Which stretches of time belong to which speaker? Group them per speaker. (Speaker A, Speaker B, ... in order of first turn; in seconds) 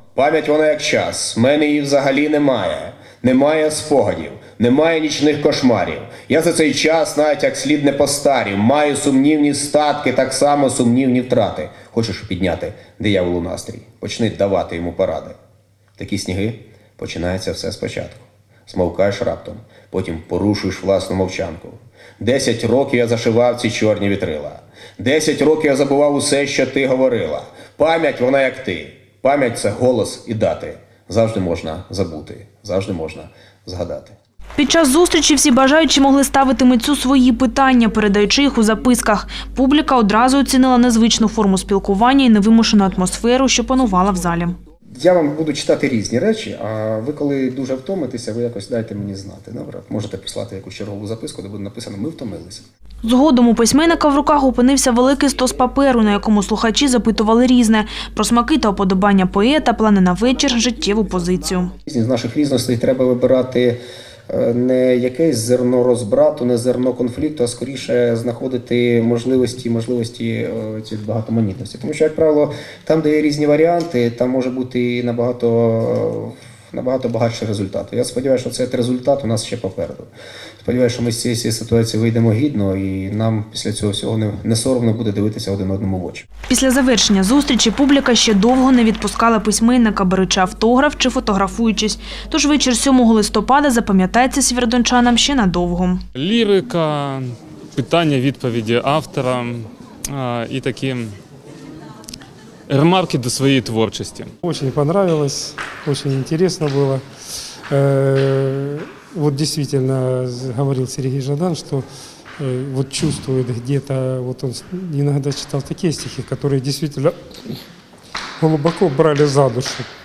Speaker A: 0.2-15.4, 16.0-34.1, 45.0-52.6, 61.9-80.1, 80.6-86.2
Speaker B: 34.6-44.5, 53.0-61.7, 86.5-96.0
Speaker C: 96.2-101.2, 102.7-104.3
Speaker D: 104.4-107.0, 107.7-111.9, 112.4-117.2, 118.4-119.9